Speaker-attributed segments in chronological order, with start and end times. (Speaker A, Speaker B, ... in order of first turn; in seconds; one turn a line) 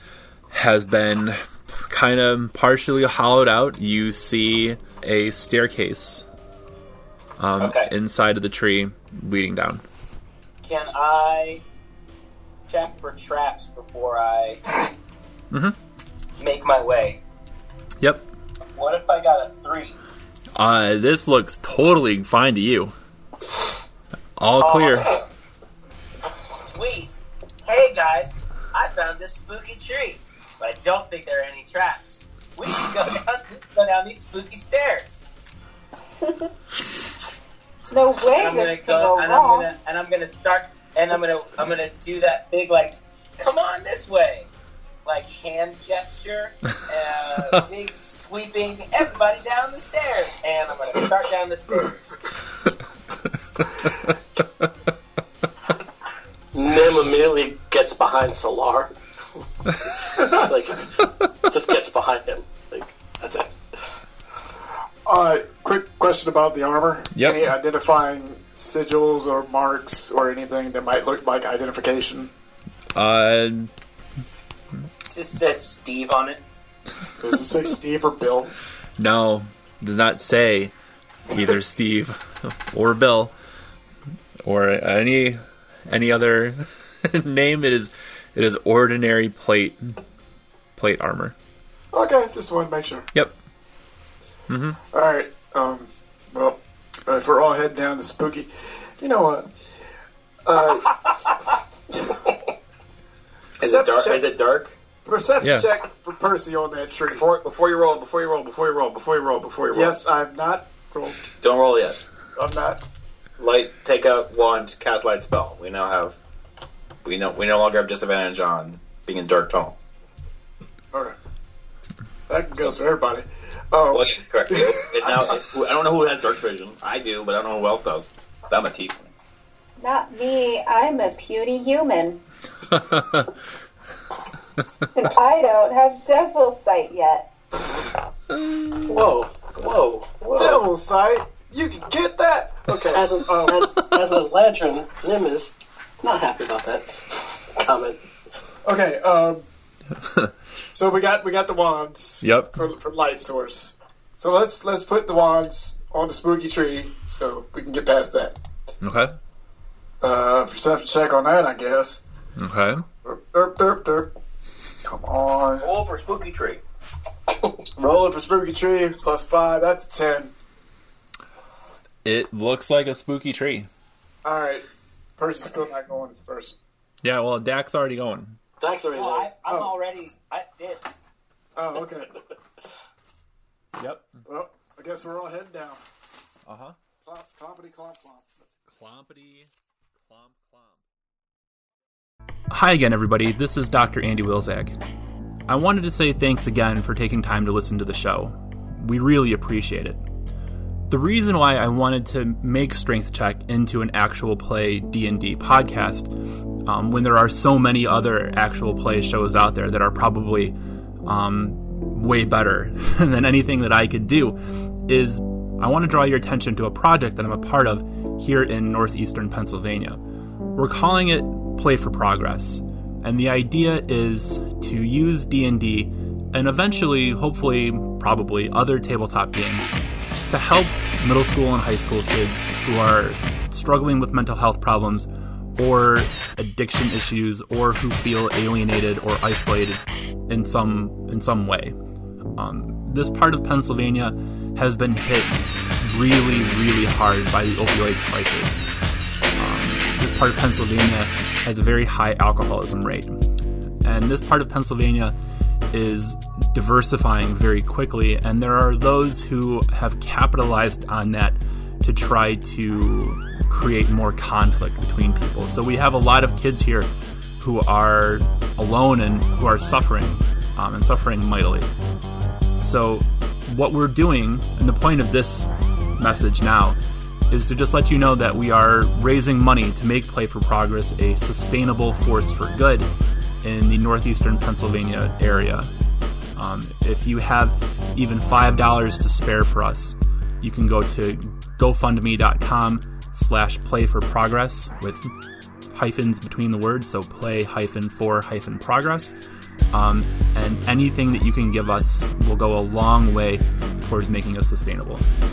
Speaker A: 0.5-6.2
Speaker A: 7.4-9.8
Speaker B: 7.6-7.9
Speaker B: 10.6-11.6
Speaker B: 12.7-14.8
Speaker B: 16.4-17.2
Speaker A: 18.0-18.3
Speaker B: 18.8-20.0
Speaker A: 20.6-22.9
Speaker A: 24.4-25.1
Speaker B: 24.6-25.3
Speaker B: 26.4-27.1
Speaker B: 27.7-35.3
Speaker C: 36.2-36.5
Speaker C: 37.9-39.7
Speaker B: 38.3-44.5
Speaker B: 45.0-52.3
Speaker D: 56.5-58.9
Speaker D: 60.1-63.8
Speaker E: 65.1-72.3
Speaker A: 67.2-67.5
Speaker A: 73.0-73.7
Speaker B: 75.1-76.4
Speaker E: 77.2-78.5
Speaker A: 79.0-80.7
Speaker A: 81.3-83.3
Speaker A: 84.5-90.0
Speaker A: 90.8-91.4
Speaker E: 91.9-93.1
Speaker A: 94.5-94.8
Speaker E: 94.9-99.6
Speaker E: 100.5-101.4
Speaker E: 101.9-102.3
Speaker F: 103.6-104.8
Speaker E: 103.6-104.3
Speaker E: 105.0-107.3
Speaker A: 105.4-105.7
Speaker F: 107.1-110.0
Speaker E: 109.7-111.3
Speaker F: 111.4-112.0
Speaker E: 112.4-112.8
Speaker F: 113.4-116.2
Speaker F: 117.0-119.8
Speaker E: 122.3-125.3
Speaker F: 123.9-129.1
Speaker C: 129.8-132.2
Speaker A: 132.8-133.3
Speaker C: 134.9-137.3
Speaker D: 138.9-140.6
Speaker E: 140.3-143.7
Speaker D: 142.9-148.0
Speaker E: 148.7-149.5
Speaker E: 150.7-158.4
Speaker A: 152.2-152.6
Speaker A: 158.8-159.1
Speaker E: 160.0-162.0
Speaker A: 162.4-162.8
Speaker E: 163.0-164.1
Speaker E: 164.8-165.7
Speaker F: 165.6-166.6
Speaker E: 167.8-170.3
Speaker A: 172.1-173.7
Speaker E: 174.2-174.7
Speaker E: 175.2-176.6
Speaker A: 177.0-178.4
Speaker D: 178.6-179.3
Speaker B: 178.9-181.0
Speaker E: 179.5-179.8
Speaker E: 181.6-182.2
Speaker A: 183.8-184.2
Speaker E: 184.2-185.8
Speaker A: 186.5-186.8
Speaker E: 187.0-188.6
Speaker A: 188.7-189.5
Speaker A: 190.1-190.8
Speaker A: 192.5-194.8
Speaker A: 195.5-200.0
Speaker A: 200.9-206.1
Speaker A: 206.7-220.0
Speaker A: 220.6-229.7
Speaker A: 230.3-241.8
Speaker A: 242.4-248.6
Speaker A: 249.4-253.2
Speaker A: 253.8-255.1
Speaker A: 255.7-266.9
Speaker A: 267.4-271.7
Speaker A: 272.5-276.8
Speaker A: 277.3-282.9
Speaker A: 283.4-285.7
Speaker A: 286.4-295.1
Speaker A: 295.7-299.1
Speaker A: 299.7-305.1